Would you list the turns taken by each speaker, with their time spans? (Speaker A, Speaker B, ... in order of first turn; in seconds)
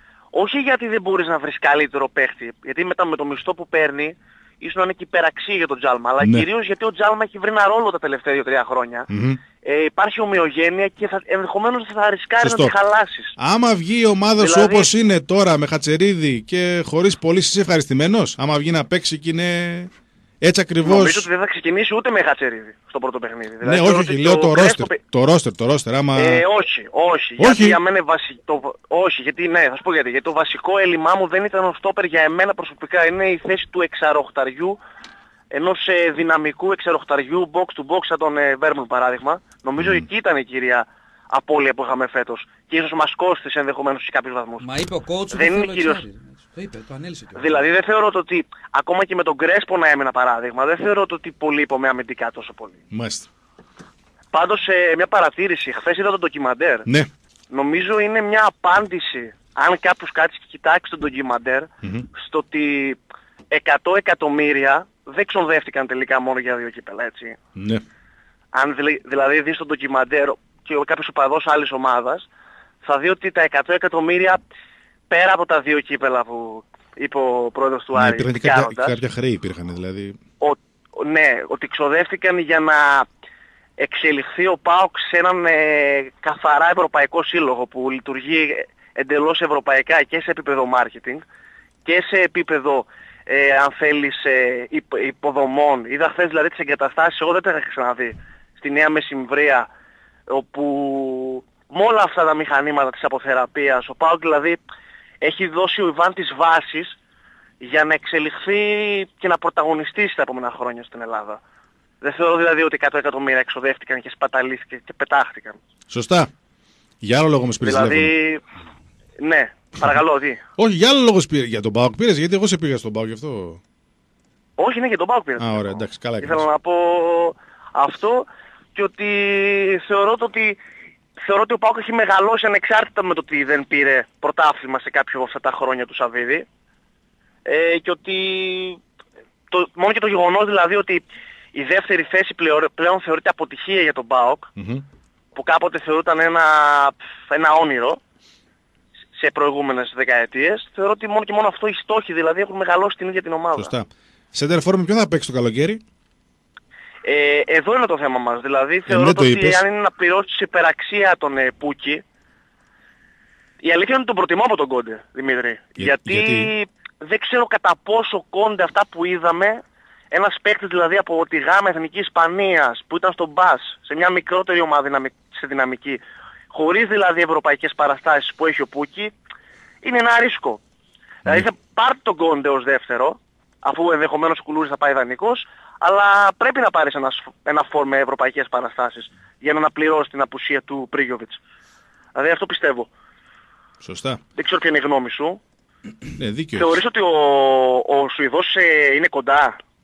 Speaker A: 0.3-9.1, 9.6-13.3, 14.4-14.9, 20.8-25.0, 26.1-34.8, 35.5-44.6, 45.3-46.0, 47.4-52.8, 54.3-56.9, 57.5-63.0, 63.5-67.4, 68.5-72.3, 72.8-74.4, 75.1-79.0, 80.4-83.1, 83.8-91.2, 91.8-99.7, 100.3-104.6, 105.2-106.9, 107.6-111.4, 112.0-115.6, 117.6-118.4, 119.2-120.4, 124.6-130.6, 131.2-136.4, 137.4-138.8, 139.5-144.5, 145.3-148.0, 149.1-153.7, 157.0-162.0, 163.6-176.0, 176.5-179.1, 179.8-180.6, 181.2-191.4, 192.1-192.9, 194.3-195.4, 196.6-199.6
Speaker B: 6.2-6.5, 9.1-9.4, 12.4-12.7, 13.4-21.3, 23.6-26.4, 27.4-27.8, 39.8-40.1, 52.9-53.3, 61.8-62.1, 67.5-67.8, 77.9-80.2, 115.9-116.3, 117.0-118.1, 120.6-123.6, 125.4-126.5, 144.6-144.8, 153.5-155.8, 158.8-159.6, 165.8-166.5, 193.8-194.2, 196.2-196.8
Speaker C: 44.6-47.6